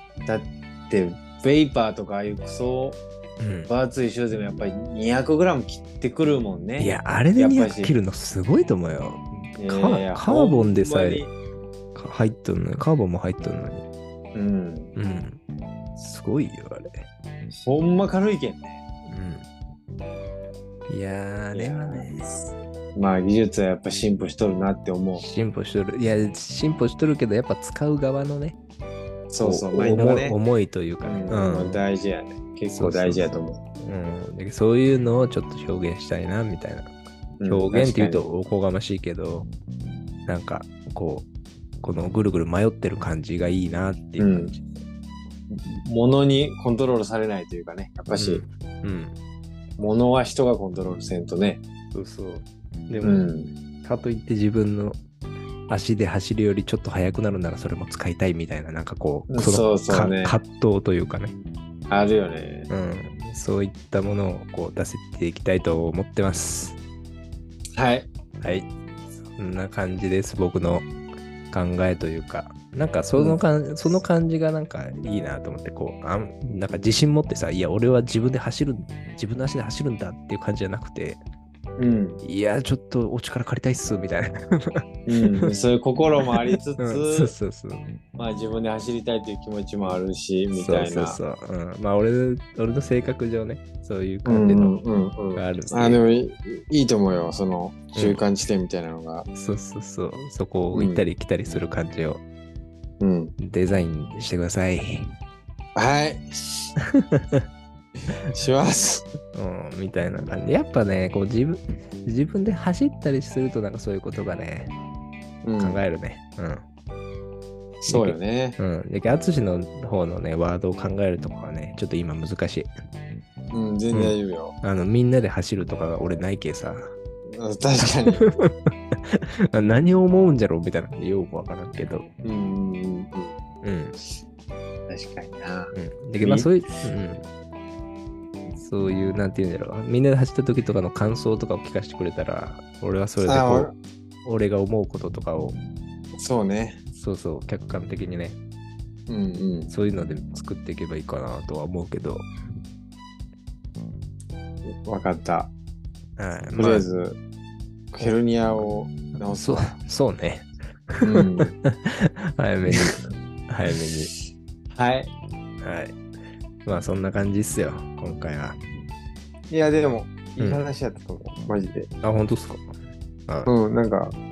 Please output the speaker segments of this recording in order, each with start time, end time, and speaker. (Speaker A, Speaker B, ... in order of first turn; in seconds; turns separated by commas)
Speaker A: 0.2-3.0, Speaker B: 3.4-3.7, Speaker A: 3.7-7.9, Speaker B: 6.8-11.2, Speaker A: 9.6-11.3, Speaker B: 11.9-13.8, Speaker A: 14.3-14.9, Speaker B: 14.9-15.4, Speaker B: 15.9-17.1, Speaker A: 17.5-18.8, Speaker B: 19.1-19.4, Speaker B: 20.9-22.2, Speaker A: 21.5-25.2, Speaker B: 25.2-28.6, Speaker A: 29.3-30.4, Speaker B: 29.4-31.8, Speaker A: 31.0-33.6, Speaker B: 32.7-36.9, Speaker A: 37.4-38.2, Speaker B: 37.5-39.5, Speaker B: 40.2-41.3, Speaker B: 41.8-44.7, Speaker A: 44.2-44.5, Speaker A: 45.5-48.4, Speaker B: 48.2-49.1, Speaker A: 49.8-51.6, Speaker B: 51.9-53.2, Speaker A: 53.0-53.5, Speaker B: 53.8-55.0, Speaker B: 55.7-61.4, Speaker A: 59.3-60.4, Speaker A: 61.9-62.7, Speaker B: 62.7-66.8, Speaker A: 67.8-68.1, Speaker B: 68.4-70.9, Speaker B: 71.5-81.2, Speaker A: 73.1-73.4, Speaker A: 81.8-82.2, Speaker B: 82.2-84.8, Speaker A: 85.1-87.3, Speaker B: 86.8-87.8, Speaker A: 88.2-91.2, Speaker B: 90.5-94.8, Speaker A: 94.2-99.3, Speaker B: 95.3-96.0, Speaker B: 97.9-98.2, Speaker B: 99.3-102.2, Speaker A: 100.7-101.0, Speaker A: 103.0-103.3, Speaker B: 103.4-105.1, Speaker A: 105.8-106.7, Speaker B: 106.8-107.4, Speaker A: 108.1-109.0, Speaker B: 109.3-114.7, Speaker A: 115.4-115.8, Speaker B: 115.6-116.6, Speaker A: 117.8-118.6, Speaker B: 117.9-122.7, Speaker A: 123.5-124.5, Speaker B: 123.9-126.9, Speaker A: 127.3-128.2, Speaker B: 128.2-132.1, Speaker A: 132.2-133.3, Speaker B: 133.6-133.9, Speaker A: 134.9-136.5, Speaker B: 135.7-137.2, Speaker B: 138.6-143.7, Speaker A: 143.2-143.7, Speaker B: 144.2-145.6, Speaker A: 146.2-146.8, Speaker B: 146.9-148.4, Speaker A: 149.1-149.7, Speaker B: 149.7-152.3, Speaker A: 154.8-155.5, Speaker B: 156.2-156.8, Speaker A: 156.6-157.2, Speaker A: 157.9-159.8, Speaker B: 159.3-163.0, Speaker A: 161.0-161.5, Speaker A: 162.7-163.1, Speaker B: 163.5-164.1, Speaker A: 164.7-165.1, Speaker B: 165.6-166.0, Speaker B: 166.6-168.6, Speaker A: 169.5-171.9, Speaker B: 172.0-172.7, Speaker A: 173.4-174.2